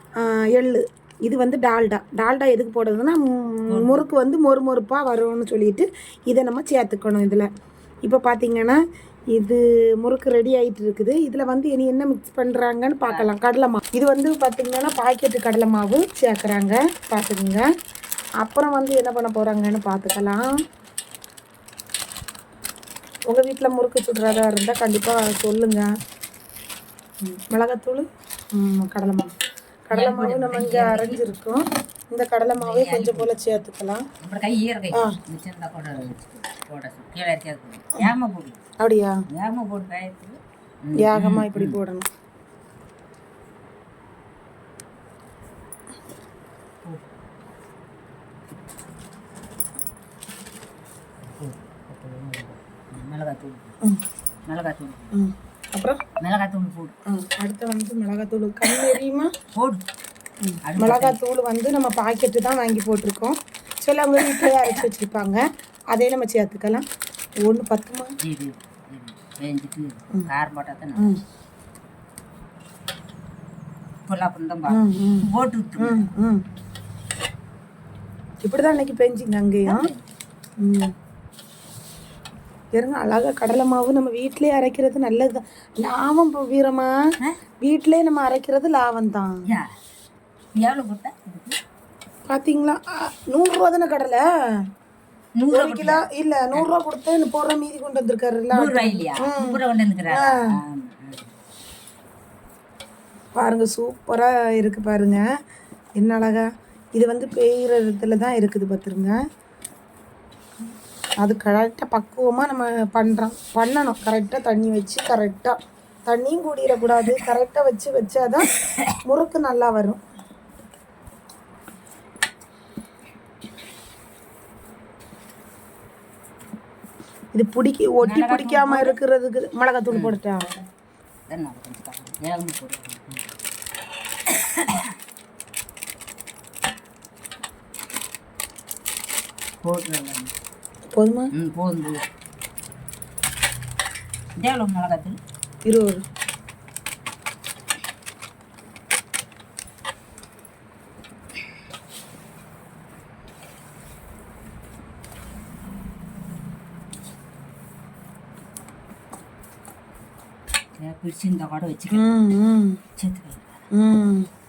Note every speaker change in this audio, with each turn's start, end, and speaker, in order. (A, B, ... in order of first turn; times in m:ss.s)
0:00.2-0:07.5 A
0:03.7-0:04.1 B
0:08.0-0:08.8 A
0:09.3-0:17.7 A
0:18.4-0:20.5 A
0:23.3-0:25.9 A
0:27.2-0:29.3 A
0:29.9-0:34.0 A
0:29.9-0:31.2 B
0:32.6-0:33.6 B
0:34.2-0:38.6 B
0:38.8-0:39.2 A
0:39.3-0:41.8 B
0:41.0-0:42.0 A
0:51.3-0:53.7 B
0:54.4-0:55.1 B
0:55.1-0:56.0 A
0:56.2-0:56.9 B
0:57.0-0:59.3 A
0:59.5-0:59.8 B
1:00.4-1:06.8 A
1:00.6-1:01.2 B
1:04.3-1:04.9 B
1:07.4-1:08.1 A
1:08.2-1:11.1 B
1:11.0-1:11.2 A
1:14.0-1:16.1 B
1:14.7-1:16.4 A
1:18.4-1:19.9 A
1:19.6-1:20.1 B
1:20.6-1:20.9 A
1:22.7-1:26.9 A
1:27.6-1:29.4 A
1:29.4-1:29.7 B
1:30.6-1:31.6 B
1:32.3-1:34.6 A
1:35.4-1:36.7 B
1:35.5-1:39.6 A
1:38.5-1:41.3 B
1:40.1-1:40.6 A
1:43.4-1:45.2 A
1:46.0-1:49.2 A
1:51.2-1:58.5 A
1:59.0-2:00.0 A
2:07.3-2:10.6 A
2:08.0-2:09.0 B
2:09.9-2:10.2 B
2:11.3-2:13.3 B
2:14.3-2:14.9 B
2:19.6-2:20.3 B
2:20.9-2:21.3 A
2:21.3-2:22.0 B
2:24.4-2:25.2 B
2:25.6-2:26.0 A
2:40.8-2:42.1 B
2:41.9-2:42.8 A
2:43.0-2:43.6 B
2:43.7-2:44.3 A